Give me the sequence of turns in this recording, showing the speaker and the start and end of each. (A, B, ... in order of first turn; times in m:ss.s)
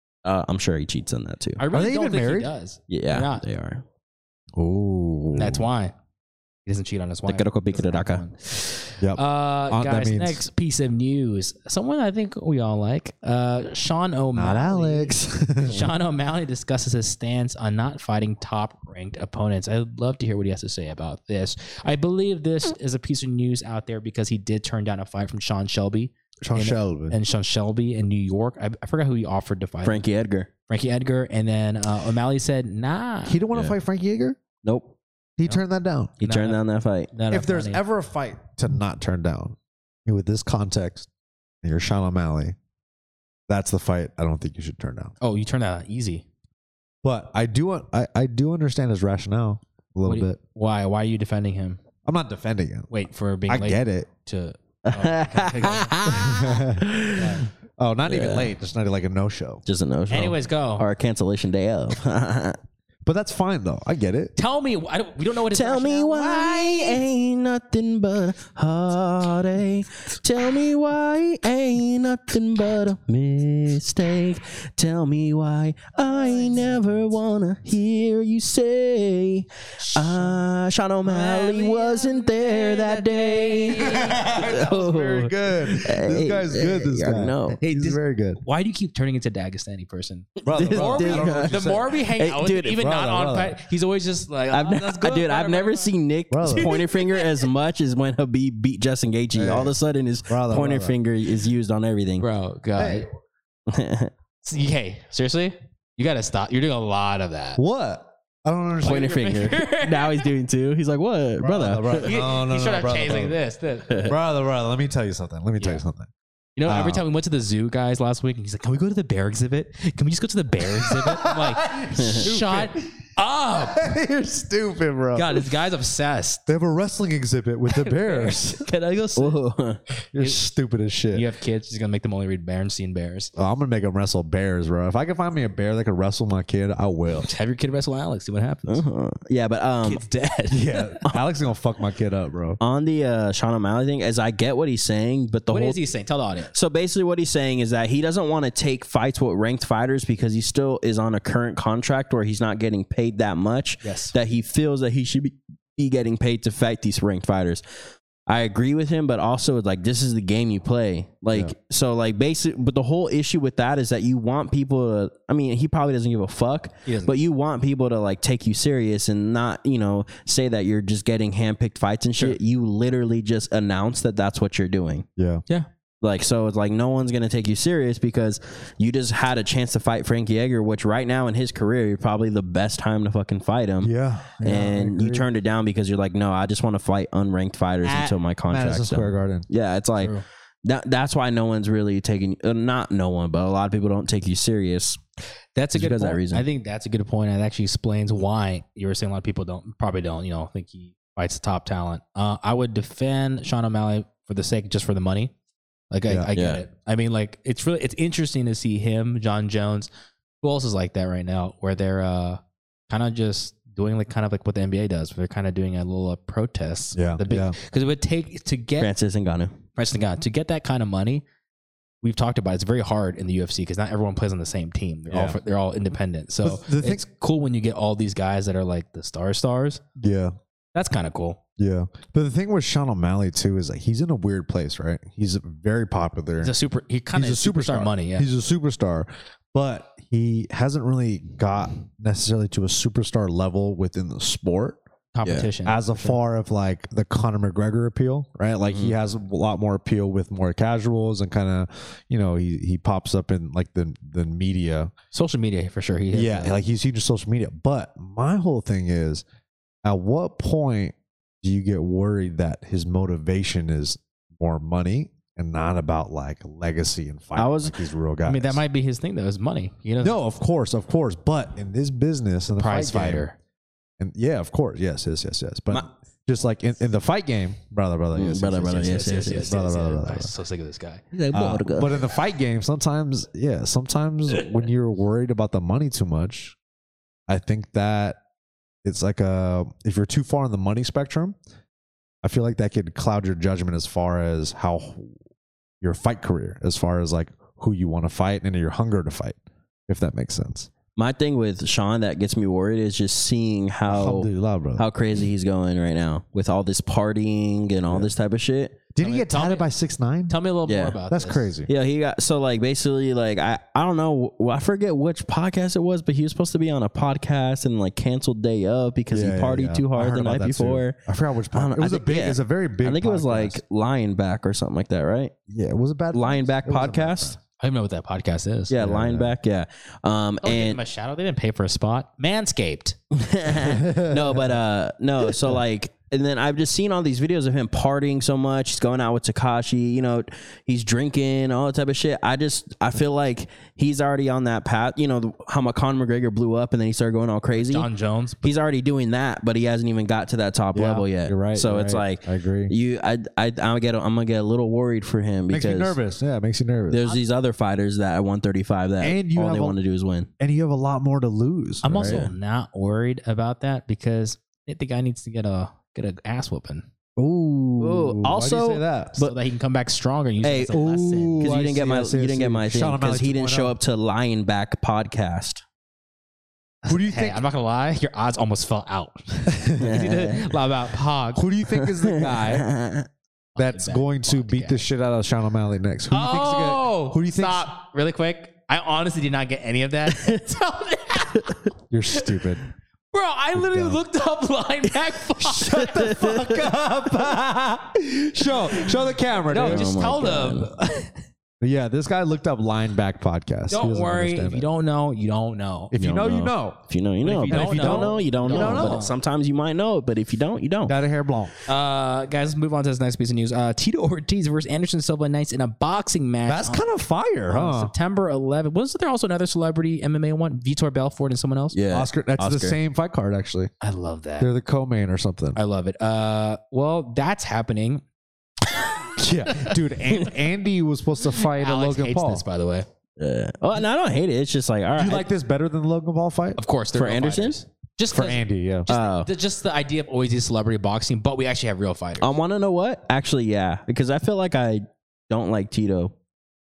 0:00.2-0:01.6 A
0:01.6-0:03.4 B
0:01.7-0:02.5 C
0:02.9-0:03.8 A
0:04.6-0:05.7 C
0:05.3-0:05.9 B
0:06.7-0:30.0 B
0:07.3-0:08.2 A
0:09.0-0:10.4 C
0:14.4-0:15.9 C
0:26.4-0:27.2 C
0:29.8-0:30.5 A
0:30.7-0:33.4 B
0:33.3-0:34.4 C
0:34.6-0:34.9 A
0:35.4-0:36.1 C
0:36.2-0:37.8 B
0:36.2-0:37.1 A
0:37.3-0:41.1 C
0:41.6-0:42.6 C
0:43.5-0:45.1 C
0:45.2-0:46.2 B
0:47.0-0:50.4 C
0:50.1-0:51.8 B
0:52.0-0:52.9 C
0:52.9-0:56.0 B
0:53.5-0:54.1 C
0:54.8-0:57.4 A
0:56.1-0:56.9 C
0:57.2-0:57.4 B
0:57.8-0:59.6 C
0:58.1-0:58.5 A
0:59.7-1:02.6 A
1:00.1-1:00.8 B
1:03.0-1:04.3 C
1:04.4-1:07.0 B
1:05.5-1:27.6 A
1:16.1-1:16.8 B
1:19.8-1:20.4 B
1:21.0-1:24.4 B
1:24.0-1:28.4 C
1:27.6-1:37.5 B
1:30.4-1:32.8 A
1:30.5-1:31.9 C
1:32.8-1:33.6 C
1:34.5-1:42.3 A
1:36.3-1:36.8 C
1:39.3-1:39.7 C
1:40.3-1:41.0 C
1:42.2-1:43.1 B
1:42.8-1:43.1 C
1:43.7-1:44.1 A
1:44.4-1:47.6 B
1:47.6-1:49.1 C
1:48.8-1:50.3 B
1:48.8-1:52.1 A
1:51.4-1:53.4 C
1:52.0-1:54.1 B
1:53.9-1:54.1 A
1:54.0-1:56.1 C
1:56.6-2:03.9 B
1:56.7-1:57.0 C
2:00.7-2:02.8 C
2:02.0-2:02.3 A
2:03.6-2:05.4 C
2:05.2-2:06.4 B
2:06.5-2:08.6 C
2:07.7-2:09.4 B
2:09.2-2:09.8 A
2:10.1-2:11.2 C
2:11.1-2:13.3 B
2:13.4-2:17.3 C
2:17.2-2:18.8 B
2:18.7-2:20.0 A
2:19.8-2:21.0 B
2:20.5-2:22.6 C
2:22.6-2:25.8 A
2:25.5-2:26.5 B
2:26.5-2:37.6 A
2:33.8-2:34.1 B
2:38.3-2:55.1 A
2:46.9-2:47.1 B
2:55.2-2:55.4 C
2:56.0-3:03.9 A
3:03.8-3:05.3 C
3:04.4-3:15.0 A
3:07.8-3:08.2 B
3:08.5-3:09.5 C
3:10.0-3:10.2 B
3:15.6-3:25.3 B
3:15.7-3:16.4 A
3:25.9-3:29.9 B
3:26.4-3:26.6 A
3:30.4-3:38.9 B
3:37.0-3:37.6 C
3:38.8-3:39.6 A
3:39.8-3:41.2 B
3:42.0-3:49.8 B
3:45.1-3:45.4 C
3:46.4-3:47.0 C
3:50.0-3:50.3 C
3:50.8-3:51.4 B
3:51.6-3:56.5 C
3:56.4-3:58.3 B
3:57.1-4:04.8 C
4:05.1-4:06.2 B
4:05.6-4:14.9 C
4:08.7-4:08.9 A
4:15.1-4:16.6 B
4:16.1-4:19.2 C
4:19.8-4:28.6 C
4:27.4-4:27.8 A
4:28.2-4:30.2 B
4:30.0-4:33.3 C
4:32.6-4:33.4 B
4:34.0-4:40.3 C
4:38.1-4:39.6 A
4:38.7-4:41.0 B
4:41.1-4:41.9 A
4:41.3-4:46.6 C
4:47.3-4:48.2 C
4:48.8-4:51.4 C
4:52.2-4:55.1 C
4:55.8-4:59.4 C
4:59.9-5:00.7 C
5:01.0-5:08.8 A
5:03.9-5:04.8 C
5:09.0-5:10.4 C
5:09.0-5:09.6 B
5:10.3-5:11.5 B
5:10.7-5:11.0 A
5:11.1-5:11.7 C
5:11.7-5:21.0 A
5:19.1-5:23.6 C
5:21.5-5:25.3 A
5:25.5-5:27.4 C
5:26.1-5:27.4 A
5:27.6-5:28.7 B
5:28.7-5:30.8 A
5:28.8-5:29.4 C
5:30.4-5:33.0 B
5:33.1-5:47.9 A
5:33.6-5:34.5 C
5:47.5-5:48.5 B
5:48.4-5:56.0 A
5:50.7-5:52.7 C
5:55.5-5:57.0 C
5:56.9-6:00.3 A
5:59.0-5:59.8 C
6:00.4-6:02.3 C
6:01.8-6:06.8 B
6:02.0-6:02.3 A
6:07.2-6:09.2 C
6:07.8-6:09.3 A
6:09.2-6:11.4 B
6:10.4-6:10.8 A
6:10.7-6:13.8 C
6:11.4-6:15.6 A
6:16.8-6:21.5 B
6:16.9-6:17.4 C
6:19.8-6:20.5 A
6:21.4-6:22.7 C
6:21.9-6:23.1 A
6:23.6-6:24.8 B
6:23.6-6:27.7 C
6:26.1-6:31.6 B
6:30.1-6:30.4 A
6:31.9-6:32.6 C
6:33.1-6:36.0 B
6:33.5-6:34.0 C
6:35.5-6:40.0 C
6:35.6-6:36.7 A
6:39.5-6:41.1 B
6:39.6-6:40.7 A
6:41.6-6:44.7 C
6:43.7-6:45.9 B
6:45.9-6:46.8 C
6:46.0-6:51.0 A
6:47.2-6:49.2 B
6:47.5-6:49.0 C
6:50.9-6:51.5 C
6:51.7-6:56.8 B
6:56.5-6:57.9 C
6:57.5-7:01.8 B
7:01.7-7:02.8 A
7:01.9-7:03.7 C
7:03.8-7:04.5 B
7:04.4-7:05.6 C
7:05.6-7:08.0 B
7:09.2-7:12.4 C
7:09.5-7:09.7 B
7:11.4-7:12.9 B
7:13.2-7:15.3 A
7:15.0-7:16.6 C
7:16.6-7:22.3 B
7:16.9-7:17.6 A
7:18.1-7:18.9 C
7:18.9-7:19.3 A
7:22.2-7:26.1 A